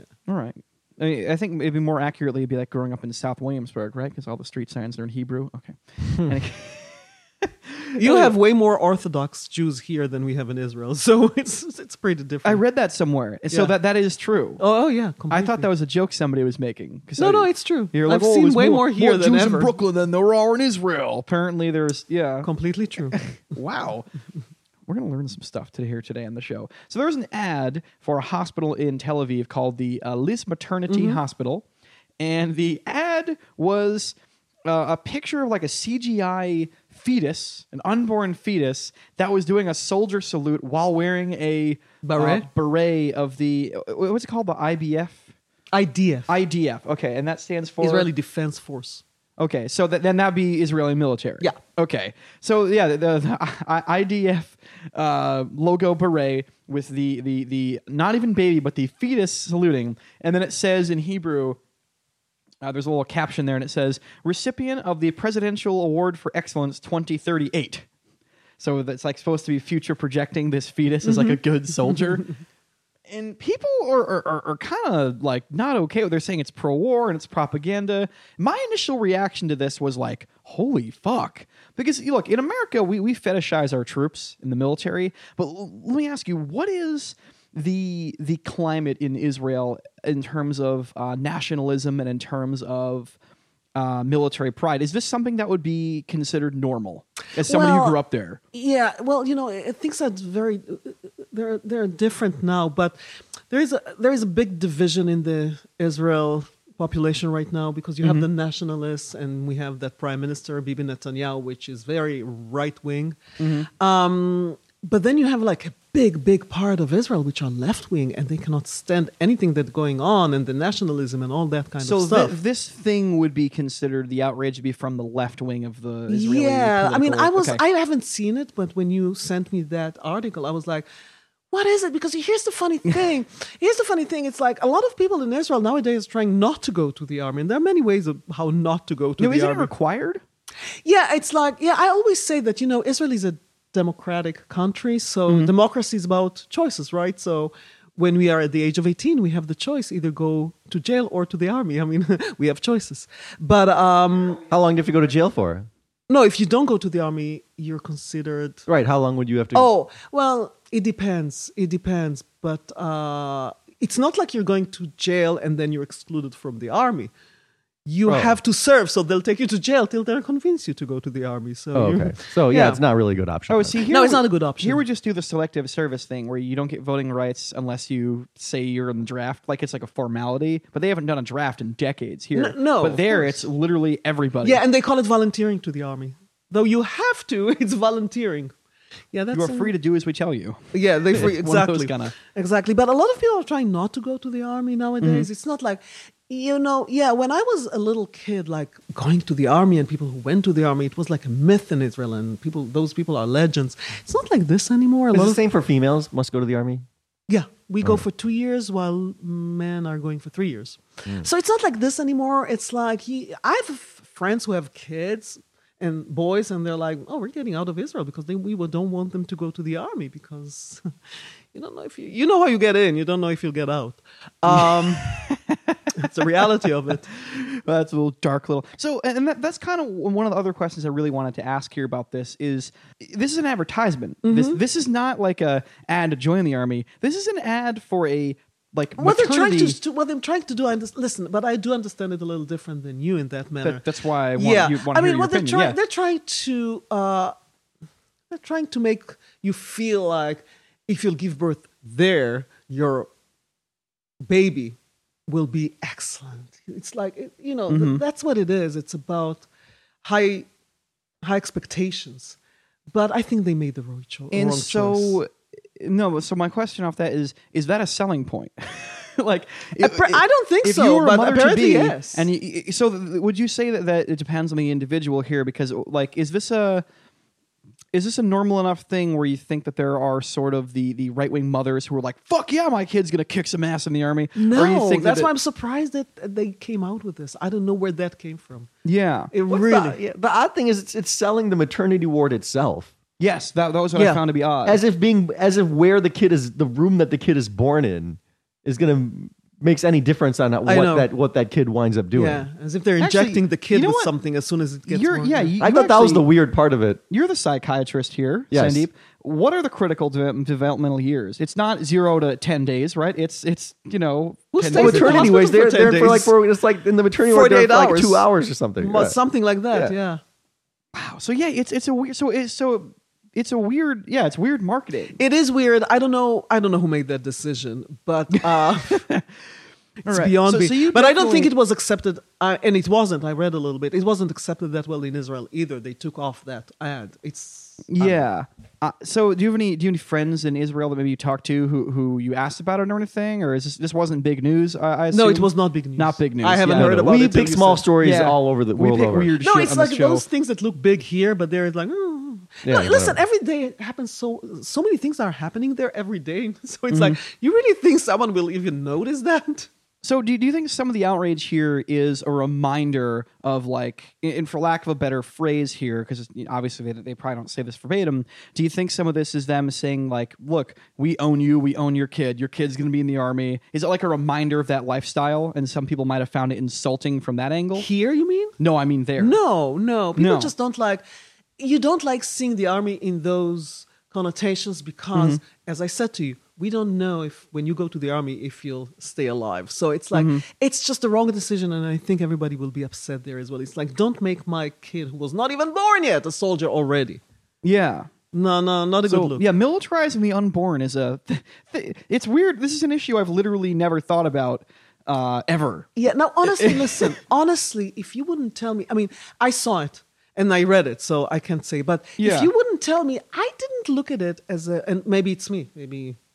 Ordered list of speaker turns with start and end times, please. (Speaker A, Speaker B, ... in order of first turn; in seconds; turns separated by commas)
Speaker A: 0.3-8.3, Speaker B: 8.0-12.6, Speaker A: 12.4-14.6, Speaker B: 13.5-13.8, Speaker B: 14.6-15.7, Speaker A: 15.3-22.5, Speaker B: 17.2-19.7, Speaker B: 22.4-23.2, Speaker A: 23.1-24.1, Speaker A: 24.9-31.6, Speaker B: 30.9-31.2, Speaker A: 32.2-34.1, Speaker A: 34.7-45.2, Speaker B: 42.0-42.5, Speaker B: 45.7-46.3, Speaker A: 46.3-48.1, Speaker B: 47.8-49.0, Speaker A: 49.4-61.6, Speaker A: 62.6-67.9, Speaker A: 68.6-72.3, Speaker B: 71.0-71.4, Speaker A: 73.1-93.2, Speaker A: 93.8-98.4, Speaker B: 97.4-98.0, Speaker B: 98.5-103.0, Speaker B: 103.5-113.2, Speaker A: 108.0-108.3, Speaker A: 113.4-113.7, Speaker B: 113.7-122.4, Speaker A: 121.8-127.6, Speaker B: 126.1-130.9, Speaker B: 131.5-139.7, Speaker A: 139.2-140.2, Speaker B: 140.8-154.4, Speaker C: 154.4-155.7, Speaker B: 156.1-158.7, Speaker C: 158.7-159.7, Speaker B: 159.5-167.1, Speaker B: 167.9-172.8, Speaker C: 168.1-168.4, Speaker C: 171.7-173.8, Speaker A: 173.5-184.6, Speaker B: 173.9-174.8, Speaker B: 182.3-183.4, Speaker B: 184.4-188.5, Speaker B: 189.1-189.7, Speaker A: 189.3-192.1, Speaker B: 190.7-205.4, Speaker A: 195.0-195.3, Speaker C: 205.1-206.9, Speaker B: 207.3-220.9, Speaker B: 221.5-225.1, Speaker A: 224.5-226.5, Speaker B: 226.0-227.1, Speaker A: 227.1-239.8, Speaker B: 234.2-234.6, Speaker B: 239.0-247.3, Speaker A: 243.6-245.8, Speaker B: 248.3-253.1, Speaker B: 254.2-254.8, Speaker B: 255.3-259.5, Speaker A: 257.7-258.0, Speaker B: 260.0-260.5, Speaker B: 261.2-262.4, Speaker B: 262.9-265.2, Speaker A: 264.3-276.8, Speaker B: 269.8-272.3, Speaker A: 277.9-285.3, Speaker B: 284.4-288.7, Speaker A: 288.9-289.3, Speaker B: 289.3-290.0, Speaker C: 289.5-292.9, Speaker A: 293.2-294.8, Speaker B: 293.9-294.2, Speaker C: 294.6-302.5, Speaker B: 300.7-301.1, Speaker B: 302.1-305.6, Speaker A: 303.0-304.1, Speaker A: 304.9-306.3, Speaker C: 305.6-307.0, Speaker A: 307.1-315.3, Speaker C: 308.5-308.9, Speaker B: 314.5-316.3, Speaker C: 314.8-319.2, Speaker B: 317.2-318.2, Speaker B: 318.8-320.2, Speaker A: 320.9-325.2, Speaker B: 325.2-329.1, Speaker A: 328.3-329.3, Speaker A: 330.1-331.5, Speaker B: 330.1-338.2, Speaker A: 337.9-347.0, Speaker B: 345.1-347.9, Speaker C: 346.7-349.3, Speaker A: 348.0-350.2, Speaker B: 349.4-359.7, Speaker C: 352.6-353.2, Speaker A: 356.9-357.2, Speaker A: 360.0-377.9, Speaker B: 377.8-378.6, Speaker A: 378.6-379.4, Speaker B: 379.2-381.0, Speaker A: 380.2-380.5, Speaker B: 381.6-397.2, Speaker A: 385.1-385.4, Speaker A: 390.1-390.4, Speaker A: 397.6-398.1, Speaker B: 398.3-399.4, Speaker A: 399.1-405.9, Speaker B: 406.0-416.2, Speaker A: 406.4-407.2, Speaker A: 412.2-412.5